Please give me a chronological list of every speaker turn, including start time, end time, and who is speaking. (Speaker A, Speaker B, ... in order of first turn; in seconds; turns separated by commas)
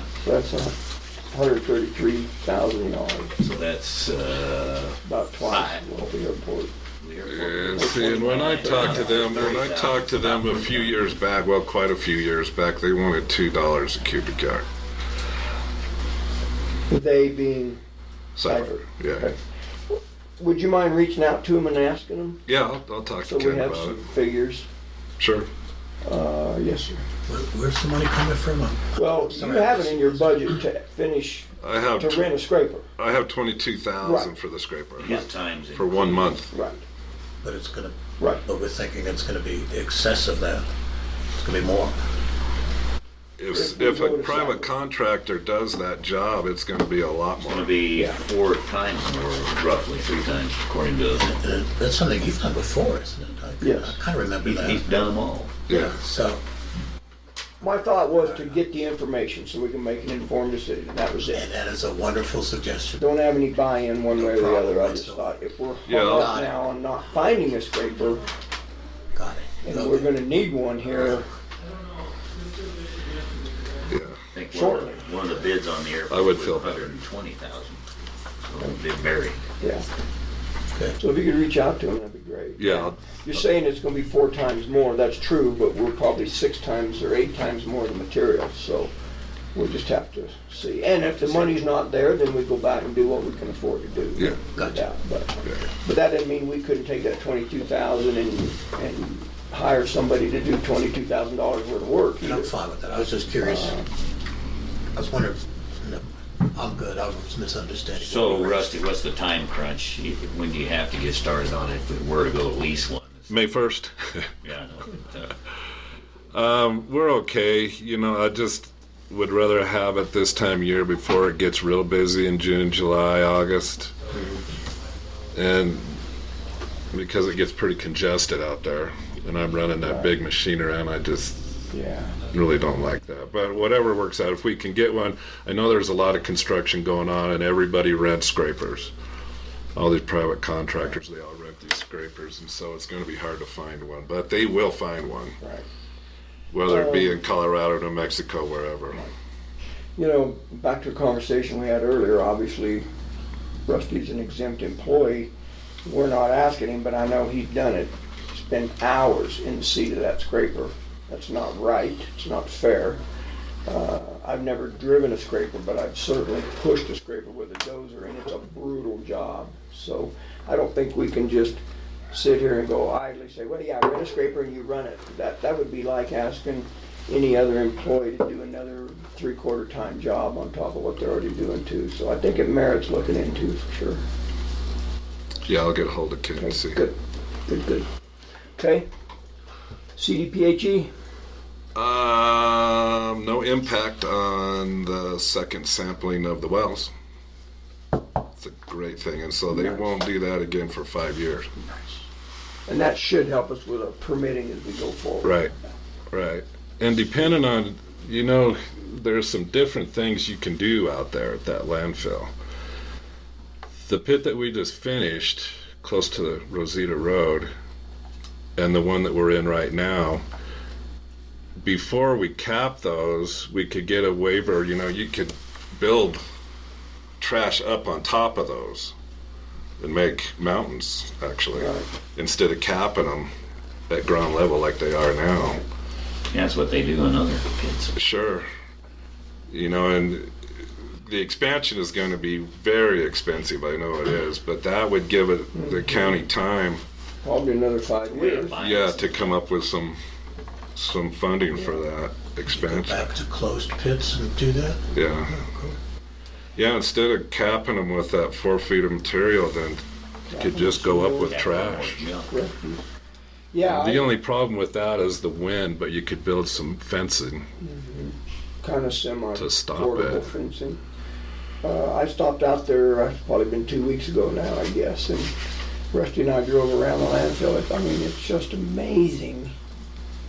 Speaker A: 0.2-0.8, Speaker A: 1.3-3.4, Speaker B: 3.4-6.0, Speaker A: 5.0-6.7, Speaker B: 7.0-11.2, Speaker C: 7.2-14.7, Speaker A: 7.7-9.6, Speaker A: 16.9-17.8, Speaker C: 18.4-19.3, Speaker A: 18.4-19.4, Speaker A: 19.9-22.4, Speaker C: 22.4-24.0, Speaker A: 23.2-24.7, Speaker C: 25.2-25.5, Speaker A: 26.0-27.1, Speaker D: 27.3-30.6, Speaker A: 28.9-32.9, Speaker C: 31.6-32.4, Speaker C: 33.0-36.5, Speaker A: 34.0-34.3, Speaker B: 35.0-36.4, Speaker A: 36.5-36.8, Speaker D: 37.4-40.7, Speaker A: 38.2-38.4, Speaker D: 41.3-42.0, Speaker C: 43.4-47.8, Speaker A: 43.5-44.7, Speaker B: 47.4-51.3, Speaker D: 51.2-54.9, Speaker A: 53.6-54.0, Speaker B: 54.4-55.5, Speaker C: 55.7-55.9, Speaker D: 55.7-56.4, Speaker A: 57.6-61.5, Speaker D: 57.6-58.5, Speaker D: 61.3-63.1, Speaker A: 63.0-68.2, Speaker D: 64.1-65.4, Speaker C: 65.9-66.3, Speaker D: 66.0-66.6, Speaker D: 69.1-70.1, Speaker A: 69.6-71.3, Speaker C: 73.9-74.2, Speaker B: 74.3-77.8, Speaker A: 74.5-75.0, Speaker C: 76.1-76.9, Speaker B: 78.5-79.4, Speaker A: 79.6-79.9, Speaker D: 80.7-81.0, Speaker A: 81.0-88.9, Speaker C: 82.6-83.4, Speaker A: 89.5-102.5, Speaker B: 91.2-91.5, Speaker C: 94.2-94.4, Speaker D: 94.5-94.9, Speaker D: 102.2-103.8, Speaker A: 103.3-103.9, Speaker D: 104.9-108.7, Speaker B: 107.9-113.4, Speaker C: 113.3-114.3, Speaker B: 114.4-115.4, Speaker C: 116.3-123.9, Speaker C: 125.3-126.0, Speaker C: 126.9-131.6, Speaker A: 129.8-130.1, Speaker A: 131.7-132.2, Speaker C: 132.3-138.9, Speaker C: 139.7-145.4, Speaker A: 145.4-145.7, Speaker C: 146.5-149.1, Speaker A: 146.7-147.2, Speaker A: 150.0-152.9, Speaker A: 153.7-155.3, Speaker A: 155.8-163.0, Speaker A: 163.7-171.6, Speaker A: 172.1-184.0, Speaker C: 185.4-186.8, Speaker A: 186.4-187.9, Speaker A: 188.6-188.9, Speaker A: 189.9-190.9, Speaker C: 191.7-196.9, Speaker C: 198.4-201.5, Speaker A: 199.5-199.9, Speaker A: 202.7-205.5, Speaker C: 205.2-205.5, Speaker C: 206.1-212.3, Speaker C: 213.8-217.5, Speaker C: 218.6-220.2, Speaker C: 221.6-226.2, Speaker C: 227.2-228.9, Speaker C: 229.8-233.3, Speaker A: 231.5-231.9, Speaker C: 233.9-235.6, Speaker B: 236.3-237.9, Speaker C: 237.9-238.5, Speaker C: 239.5-246.8, Speaker A: 245.5-246.2, Speaker A: 247.2-248.6, Speaker B: 248.1-249.4, Speaker C: 248.6-250.0, Speaker C: 250.7-253.1, Speaker D: 252.5-255.8, Speaker C: 254.9-255.4, Speaker C: 256.6-259.8, Speaker A: 260.3-261.4, Speaker C: 260.3-262.1, Speaker B: 261.2-262.3, Speaker A: 262.3-262.8, Speaker A: 263.5-264.2, Speaker C: 263.6-267.5, Speaker A: 267.6-270.8, Speaker C: 269.3-270.3, Speaker A: 271.6-275.3, Speaker A: 275.9-279.5